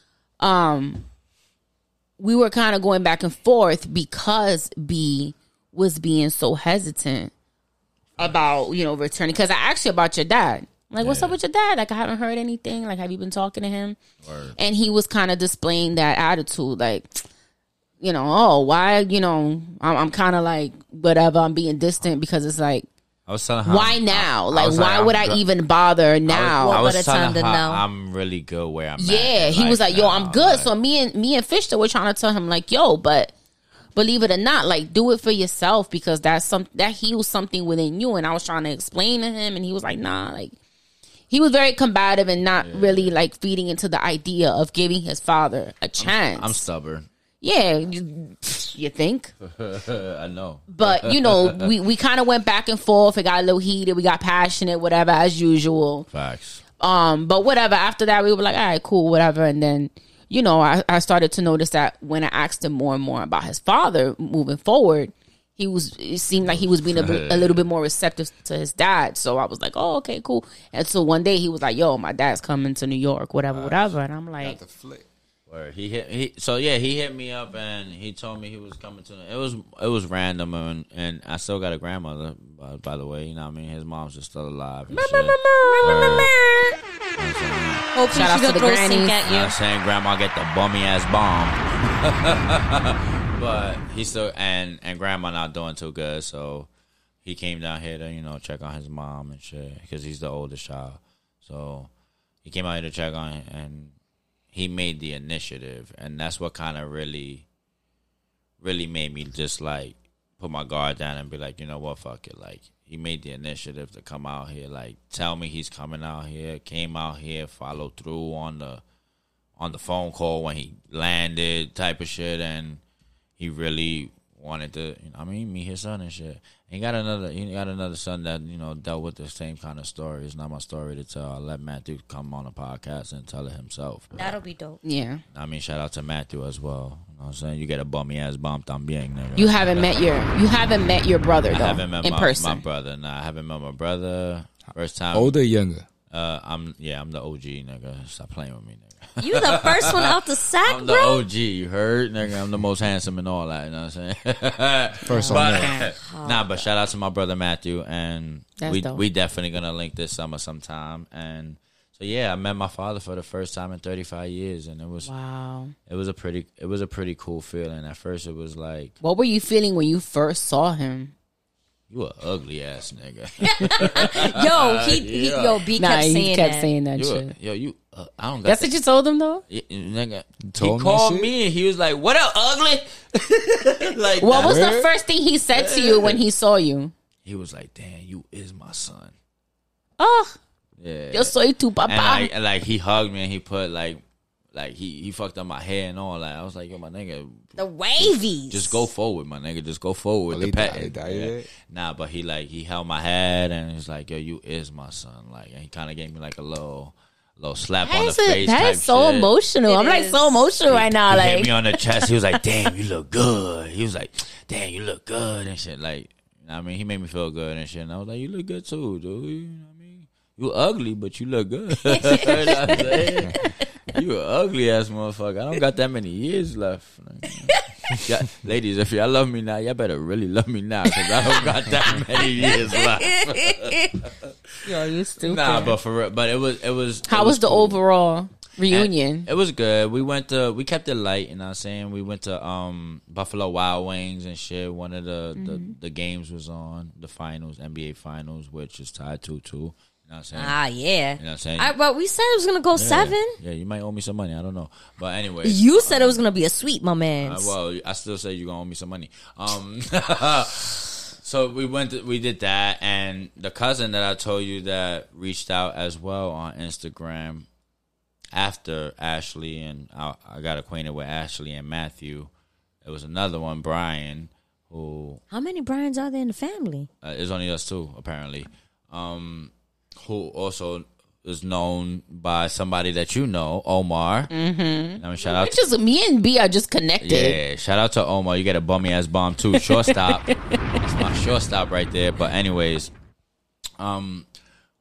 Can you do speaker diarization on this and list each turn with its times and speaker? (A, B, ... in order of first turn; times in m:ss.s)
0:00.4-0:01.0 A
0:02.2-0:07.3 A
0:08.2-0:14.0 A
0:11.0-0:11.4 B
0:14.2-0:14.6 B
0:14.6-0:17.2 A
0:18.0-0:22.9 A
0:23.3-0:25.4 B
0:23.6-0:26.8 A
0:26.2-0:30.7 B
0:26.6-0:27.8 C
0:29.0-0:33.3 A
0:33.9-0:40.5 A
0:41.3-0:46.6 A
0:42.6-0:43.1 B
0:46.0-0:47.1 B
0:47.4-0:49.3 A
0:49.4-0:51.7 B
0:50.7-0:56.1 A
0:56.1-0:56.6 B
0:56.8-1:14.6 A
1:06.4-1:07.7 B
1:13.5-1:14.0 B
1:14.4-1:15.0 D
1:15.5-1:26.3 B
1:24.9-1:26.3 A
1:25.6-1:26.6 C
1:27.1-1:27.9 B
1:27.9-1:29.5 C
1:28.1-1:29.2 A
1:29.2-1:36.7 B
1:37.2-1:41.9 B
1:42.4-1:43.9 B
1:44.5-1:47.4 B
1:48.6-1:58.8 B
1:59.6-2:02.8 B
2:03.4-2:14.4 B
2:14.2-2:14.8 C
2:14.8-2:15.2 A
2:15.3-2:19.9 B
2:19.4-2:22.6 A
2:21.5-2:25.4 B
2:25.1-2:25.8 D
2:26.1-2:45.1 B
2:29.2-2:31.2 C
2:35.0-2:35.8 D
2:35.1-2:35.9 A
2:36.0-2:36.7 C
2:38.6-2:39.0 A
2:45.0-2:45.7 A
2:45.9-2:49.0 B
2:49.0-2:51.1 A
2:51.9-2:55.6 B
2:53.6-2:56.7 C
2:53.8-2:54.0 A
2:55.8-2:57.3 A
2:57.0-2:58.7 B
2:58.4-2:59.4 A
2:59.5-3:04.7 B
3:00.4-3:01.3 D
3:04.2-3:06.9 A
3:04.3-3:04.9 D
3:05.5-3:06.2 B
3:07.2-3:09.1 B
3:10.0-3:10.4 A
3:10.8-3:11.3 B
3:11.1-3:12.3 A
3:11.8-3:14.0 B
3:14.5-3:29.3 B
3:17.6-3:18.8 C
3:20.3-3:21.5 D
3:27.8-3:32.1 A
3:29.6-3:30.5 C
3:30.6-3:54.3 B
3:42.0-3:42.3 C
3:52.4-3:53.9 C
3:54.6-3:55.8 A
3:55.2-3:57.8 B
3:57.1-3:59.3 A
3:58.7-4:10.6 B
4:05.4-4:05.7 A
4:10.3-4:13.4 C
4:11.2-4:11.7 B
4:12.7-4:16.2 B
4:15.4-4:17.5 C
4:17.2-4:27.5 B
4:28.3-4:32.3 B
4:32.8-4:35.2 B
4:35.3-4:36.9 C
4:37.0-4:44.3 B
4:44.3-4:47.4 A
4:45.0-4:45.6 B
4:47.0-4:52.9 B
4:49.6-4:50.4 A
4:53.8-4:54.2 B